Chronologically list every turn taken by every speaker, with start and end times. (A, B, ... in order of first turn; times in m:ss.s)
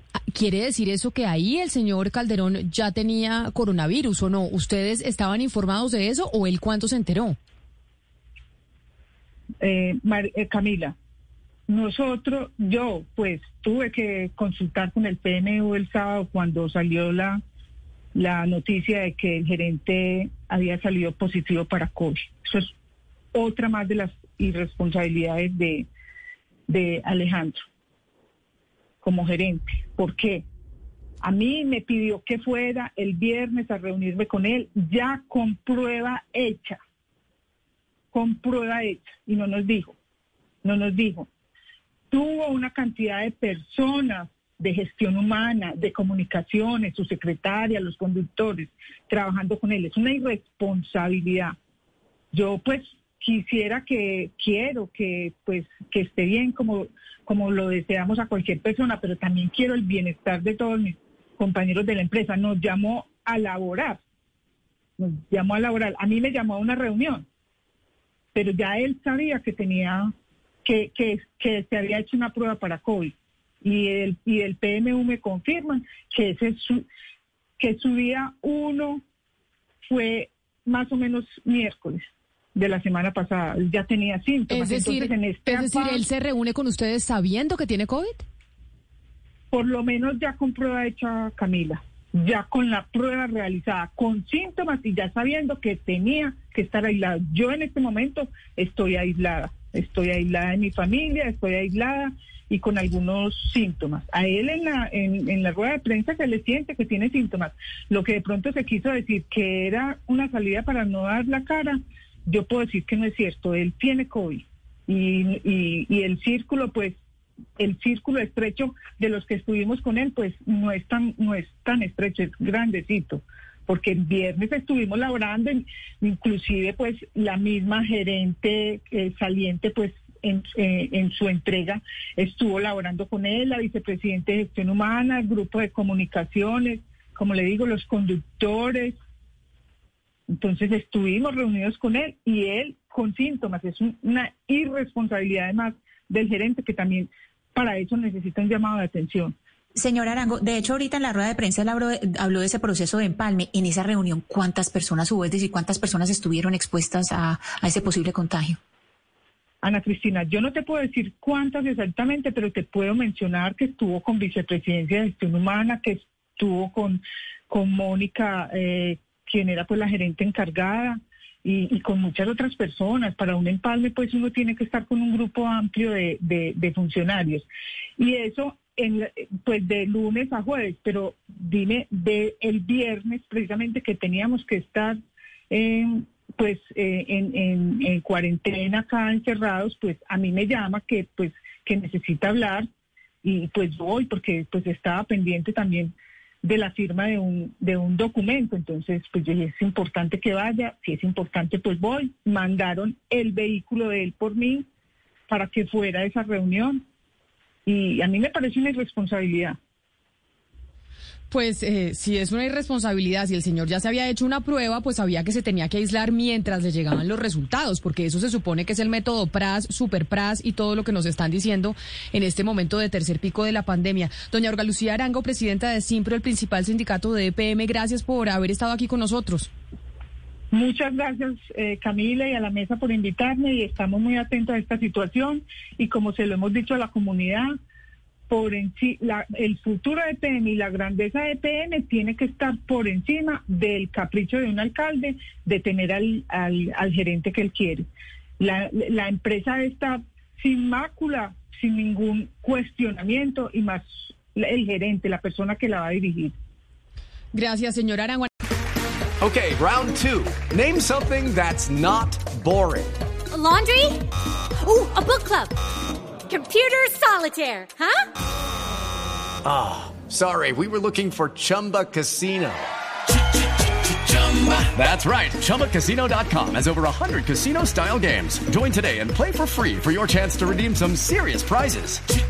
0:00.3-0:07.4 A
0:09.6-0:11.0 B
0:11.7-0:17.4 B
0:18.2-0:22.7 B
0:23.3-0:25.9 B
0:26.7-0:27.6 B
0:29.0-0:30.4 B
0:31.2-0:36.8 B
0:38.1-0:40.0 B
0:40.6-0:41.3 B
0:42.1-0:51.6 B
0:52.3-1:04.0 B
1:05.0-1:07.2 B
1:08.3-1:10.1 B
1:10.6-1:16.8 B
1:17.6-1:19.0 B
1:19.8-1:26.0 B
1:24.5-1:28.2 A
1:29.5-1:56.9 B
1:57.6-2:19.0 B
2:20.3-2:29.3 B
2:29.8-2:38.6 C
2:39.6-2:57.4 B
2:58.0-3:05.0 B
3:05.5-3:12.7 B
3:13.2-3:24.7 B
3:25.3-3:26.8 B
3:27.7-3:29.6 B
3:31.3-3:49.5 A
3:50.5-3:57.5 B
3:58.3-4:07.9 B
4:08.4-4:16.3 B
4:17.3-4:18.3 A
4:19.2-4:23.0 D
4:23.3-4:24.0 E
4:24.6-4:25.5 E
4:26.3-4:28.1 E
4:29.4-4:32.7 D
4:34.1-4:42.0 D